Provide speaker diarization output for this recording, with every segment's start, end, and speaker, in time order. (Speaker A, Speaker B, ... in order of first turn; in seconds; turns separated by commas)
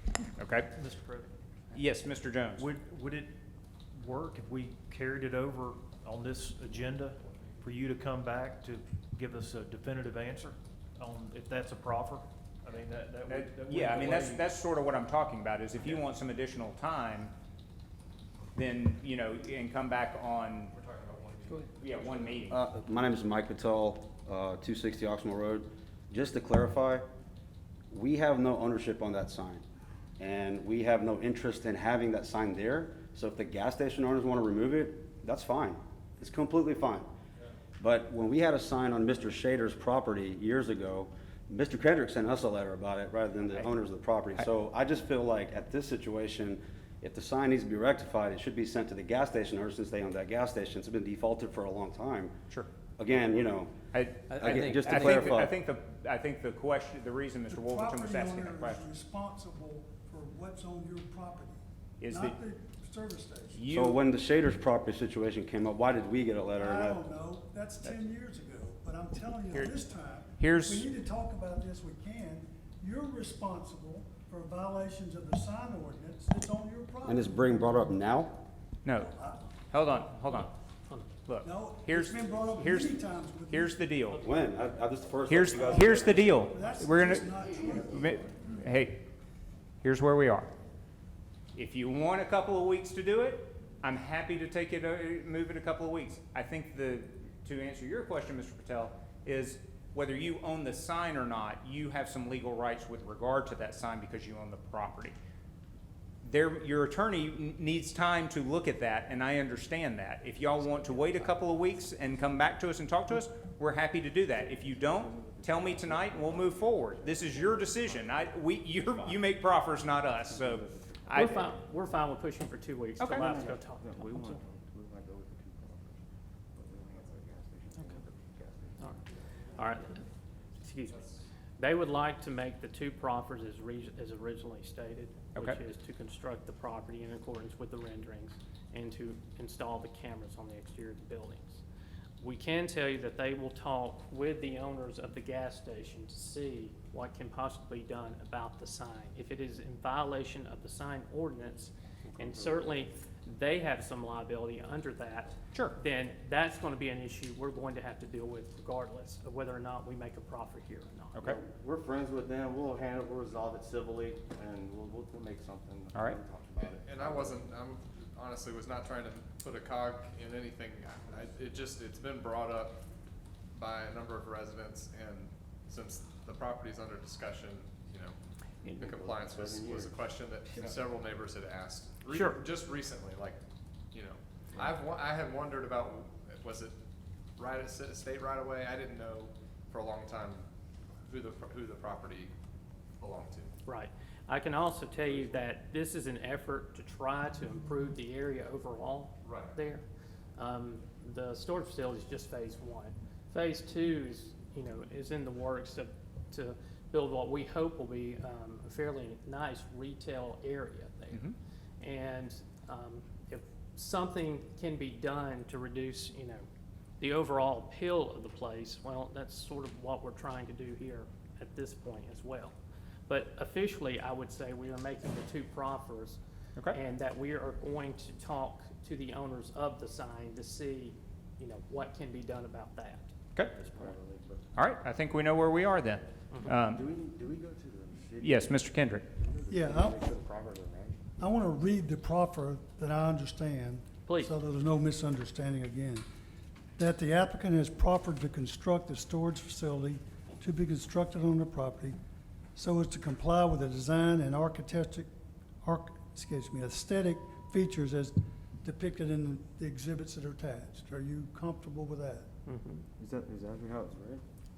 Speaker A: 0.4-0.7, Speaker B: 0.7-1.3, Speaker A: 1.7-2.7, Speaker B: 2.6-3.3, Speaker B: 3.9-14.4, Speaker A: 13.3-17.3, Speaker A: 18.6-20.7, Speaker C: 20.7-22.3, Speaker A: 21.8-22.6, Speaker D: 22.5-27.1, Speaker D: 27.9-29.6, Speaker D: 30.2-37.1, Speaker D: 37.8-52.3, Speaker D: 53.0-53.7, Speaker A: 53.9-58.9, Speaker D: 54.4-55.5, Speaker E: 57.5-63.6, Speaker A: 62.0-62.4, Speaker A: 63.5-64.0, Speaker D: 63.7-67.0, Speaker E: 66.6-77.8, Speaker A: 69.3-69.8, Speaker A: 70.4-70.9, Speaker D: 77.0-78.4, Speaker A: 78.9-79.1, Speaker E: 78.9-79.5, Speaker A: 79.7-80.5, Speaker A: 81.3-84.3, Speaker E: 81.4-83.8, Speaker D: 84.2-86.3, Speaker A: 85.3-89.0, Speaker E: 85.7-88.3, Speaker A: 89.8-90.5, Speaker A: 91.5-105.2, Speaker A: 106.2-121.4, Speaker F: 114.7-118.3, Speaker F: 120.2-121.4, Speaker G: 121.1-124.4, Speaker A: 123.0-123.3, Speaker F: 123.1-126.0, Speaker F: 126.5-129.0, Speaker G: 129.6-130.0, Speaker G: 130.6-141.6, Speaker G: 142.2-161.2, Speaker F: 152.1-152.8, Speaker F: 161.2-167.5, Speaker A: 165.9-166.2, Speaker C: 166.6-172.8, Speaker C: 173.5-178.2, Speaker C: 178.8-183.4, Speaker F: 178.8-180.0, Speaker G: 182.1-182.4, Speaker C: 183.9-186.8, Speaker C: 187.4-190.4, Speaker C: 191.1-192.3, Speaker C: 193.0-193.5, Speaker G: 193.7-199.8, Speaker C: 195.1-195.3, Speaker C: 199.2-199.5, Speaker G: 200.4-211.3, Speaker G: 211.8-216.5, Speaker G: 217.0-222.6, Speaker G: 223.1-226.2, Speaker G: 226.7-233.1, Speaker F: 233.6-234.5, Speaker A: 234.6-236.8, Speaker F: 236.6-241.0, Speaker A: 238.2-239.0, Speaker E: 239.5-240.1, Speaker E: 241.2-246.1, Speaker G: 244.1-244.3, Speaker E: 246.8-252.0, Speaker E: 252.6-255.1, Speaker E: 255.6-262.3, Speaker G: 262.5-262.8, Speaker F: 263.0-264.2